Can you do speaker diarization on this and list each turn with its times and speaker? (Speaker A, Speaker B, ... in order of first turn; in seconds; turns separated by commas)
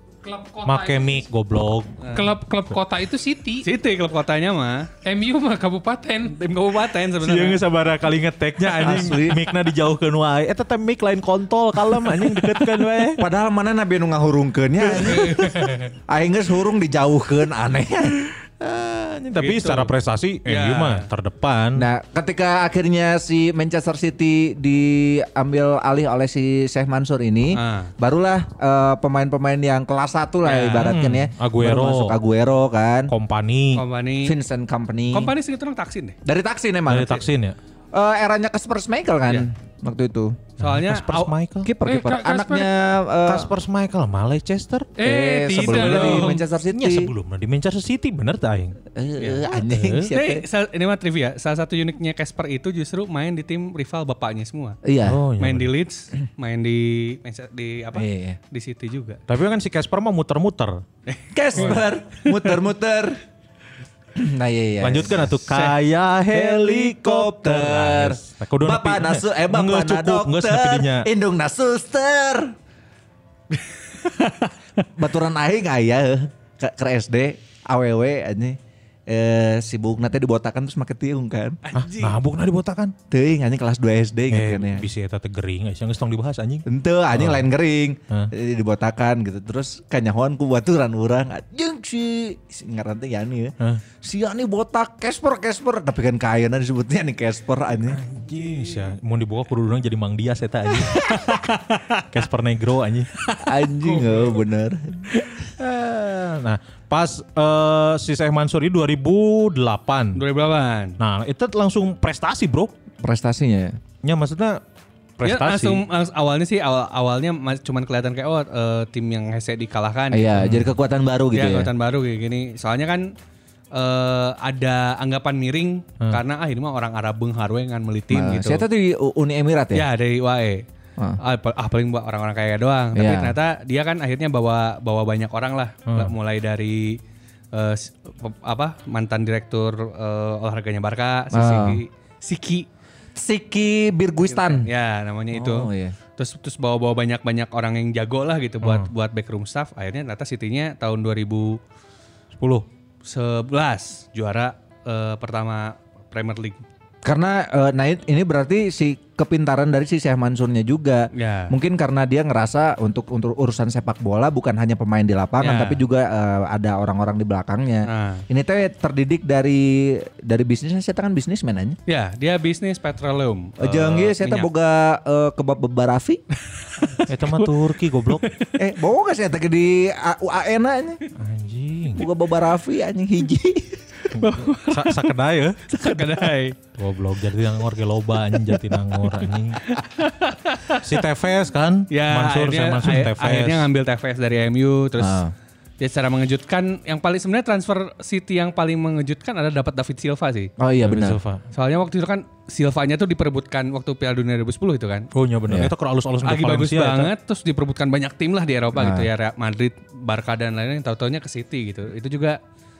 Speaker A: 0.2-1.2, Speaker B: 0.6-2.0, Speaker C: 2.0-2.3, Speaker A: 2.1-3.7, Speaker C: 3.6-4.9, Speaker A: 5.0-6.4, Speaker C: 6.3-7.6, Speaker B: 7.2-13.2, Speaker D: 8.8-9.4, Speaker D: 13.2-18.3, Speaker C: 14.9-15.9, Speaker B: 18.6-21.9, Speaker C: 19.4-19.9, Speaker C: 20.4-21.1, Speaker D: 21.8-33.1, Speaker C: 27.5-27.9, Speaker C: 30.5-30.9, Speaker B: 30.6-32.1, Speaker B: 33.1-33.8, Speaker C: 33.7-34.3, Speaker D: 34.2-35.3, Speaker C: 35.1-36.2, Speaker D: 36.2-37.2, Speaker B: 36.9-37.5, Speaker D: 37.9-40.4, Speaker B: 40.6-41.7, Speaker C: 40.6-41.3, Speaker D: 41.6-43.5, Speaker A: 41.8-42.7, Speaker B: 43.2-44.9, Speaker A: 45.0-46.4, Speaker D: 45.0-47.1, Speaker C: 45.6-46.4, Speaker B: 46.0-48.8, Speaker D: 48.9-50.4, Speaker C: 49.2-54.8, Speaker D: 54.8-55.2, Speaker B: 55.0-55.7, Speaker C: 55.4-59.2, Speaker D: 57.9-58.4, Speaker B: 59.3-60.8, Speaker C: 61.1-62.6, Speaker D: 61.3-63.2, Speaker D: 64.2-65.3, Speaker B: 64.8-71.1, Speaker C: 65.5-65.8, Speaker D: 66.3-72.5, Speaker C: 73.6-74.5, Speaker D: 75.0-81.6, Speaker C: 81.6-82.2, Speaker B: 81.7-82.9, Speaker D: 83.1-84.8, Speaker B: 84.3-87.5, Speaker D: 86.7-98.0, Speaker B: 97.9-101.2, Speaker C: 100.8-102.0, Speaker B: 102.1-103.1, Speaker C: 103.2-104.2, Speaker D: 103.4-105.2, Speaker B: 105.6-110.2, Speaker C: 110.2-111.0, Speaker B: 111.0-112.7, Speaker D: 113.0-113.8, Speaker B: 114.0-114.6, Speaker B: 115.2-115.8, Speaker C: 115.2-120.5, Speaker D: 120.1-121.7, Speaker C: 121.3-123.1, Speaker C: 123.7-128.6, Speaker D: 128.1-129.8, Speaker C: 129.7-130.6, Speaker C: 131.2-137.0, Speaker D: 132.9-133.3, Speaker B: 135.9-136.1, Speaker C: 137.5-142.7, Speaker D: 141.3-141.8, Speaker D: 143.2-144.7, Speaker C: 144.3-151.6, Speaker D: 145.3-145.9, Speaker B: 148.6-148.9, Speaker C: 153.0-156.6, Speaker D: 157.0-171.8, Speaker C: 161.1-161.5, Speaker C: 165.4-165.8, Speaker C: 167.8-168.2, Speaker C: 171.9-174.5, Speaker D: 173.6-176.2, Speaker B: 173.6-174.0, Speaker C: 176.7-177.6, Speaker B: 177.1-178.2, Speaker C: 178.1-178.5, Speaker D: 178.6-181.0, Speaker B: 181.2-182.1, Speaker D: 181.9-184.1, Speaker C: 184.1-185.1, Speaker B: 184.2-189.6, Speaker C: 185.7-186.6, Speaker C: 188.5-190.9, Speaker B: 190.8-193.7, Speaker C: 191.9-195.2, Speaker D: 195.0-195.3, Speaker C: 195.8-200.5, Speaker D: 200.6-201.2, Speaker B: 200.8-201.4, Speaker C: 201.5-205.1, Speaker B: 205.1-207.1, Speaker C: 206.2-212.4, Speaker D: 208.7-209.1